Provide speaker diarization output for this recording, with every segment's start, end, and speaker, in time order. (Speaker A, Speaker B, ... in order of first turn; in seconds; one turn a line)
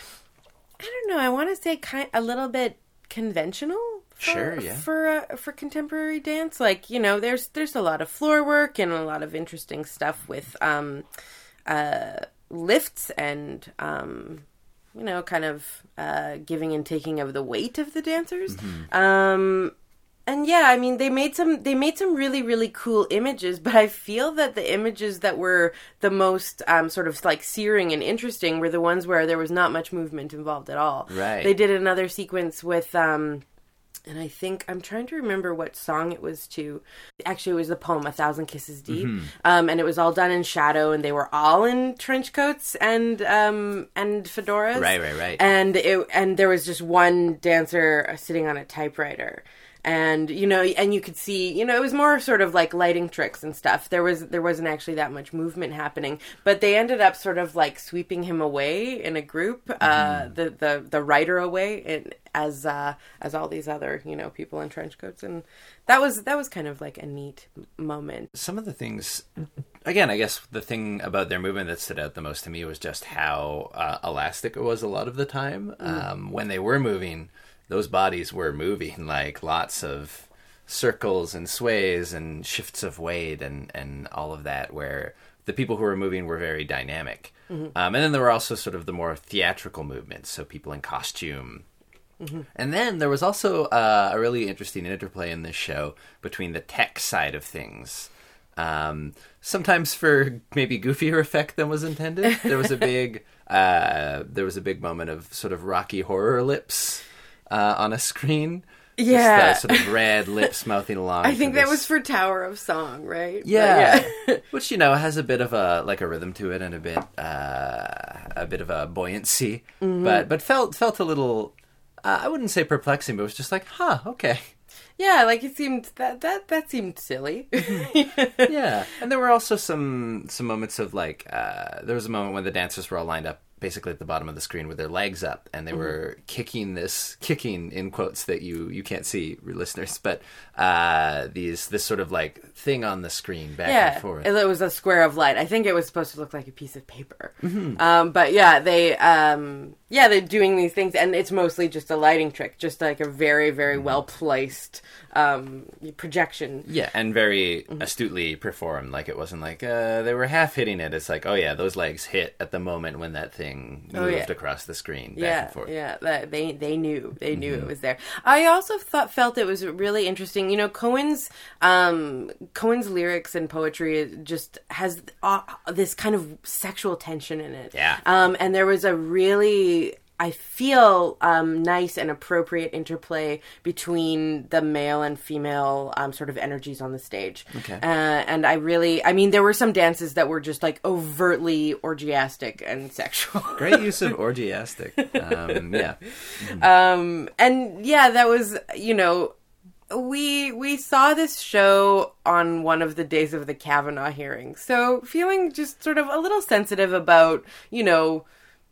Speaker A: 0.8-11.1
Speaker B: 4.2-4.8
Speaker A: 11.7-19.7
Speaker B: 18.5-18.9
Speaker A: 20.3-33.4
Speaker B: 31.1-31.5
Speaker A: 34.1-68.3
Speaker B: 38.9-39.3
Speaker B: 44.7-45.4
Speaker B: 59.8-60.3
Speaker B: 68.3-69.2
Speaker B: 69.8-91.6
Speaker B: 92.5-111.9
Speaker A: 102.2-102.5
Speaker A: 109.0-110.5
Speaker A: 111.2-114.4
Speaker B: 113.4-121.5
Speaker A: 119.8-120.3
Speaker B: 122.0-124.5
Speaker A: 125.0-128.5
Speaker B: 128.4-144.3
Speaker A: 143.6-156.7
Speaker B: 147.4-147.8
Speaker B: 156.6-165.7
Speaker A: 163.9-164.3
Speaker A: 165.1-194.1
Speaker B: 167.3-167.7
Speaker B: 177.7-178.0
Speaker B: 187.5-187.8
Speaker B: 193.6-196.7
Speaker A: 195.2-199.3
Speaker A: 199.9-208.2